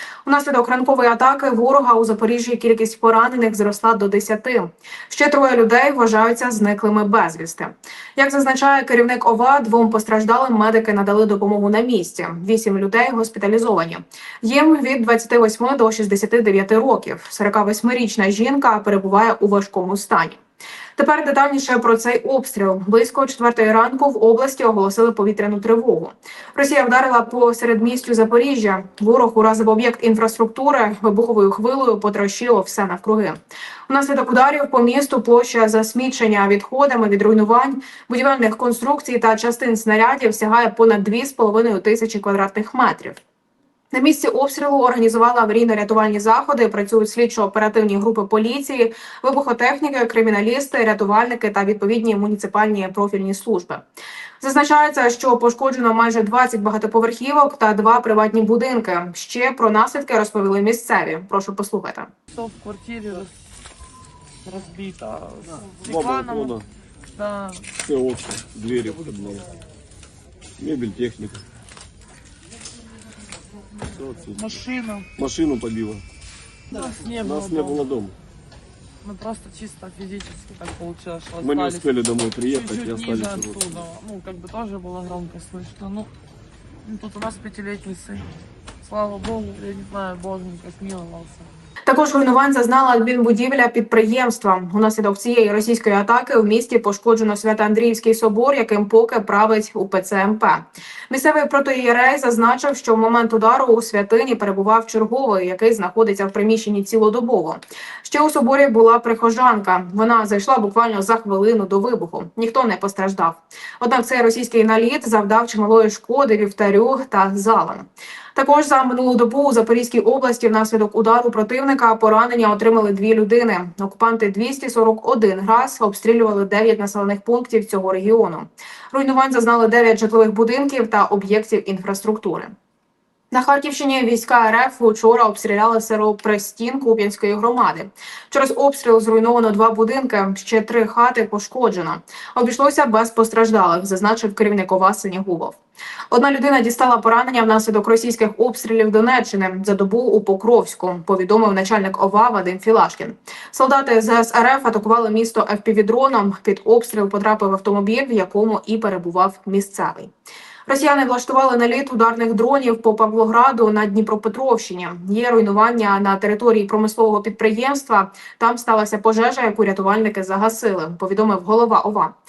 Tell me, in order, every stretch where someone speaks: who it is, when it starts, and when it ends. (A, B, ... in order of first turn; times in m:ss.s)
0:00.2-0:20.4 A
0:21.0-0:33.4 A
0:33.9-0:43.2 A
0:43.9-0:53.8 A
0:54.4-1:02.1 A
1:02.3-1:03.3 B
1:04.4-1:06.6 B
1:05.8-1:06.7 C
1:07.2-1:07.7 B
1:07.8-1:09.5 C
1:10.6-1:11.4 C
1:13.9-1:14.5 C
1:14.4-1:15.1 B
1:15.2-1:16.0 C
1:16.7-1:17.8 B
1:17.1-1:18.1 C
1:19.0-1:21.9 B
1:21.4-1:23.8 C
1:22.5-1:26.1 B
1:26.8-1:28.3 B
1:28.8-1:31.5 B
1:31.9-2:12.5 A
2:13.3-2:25.6 A
2:26.1-2:40.1 A
2:40.7-2:52.1 A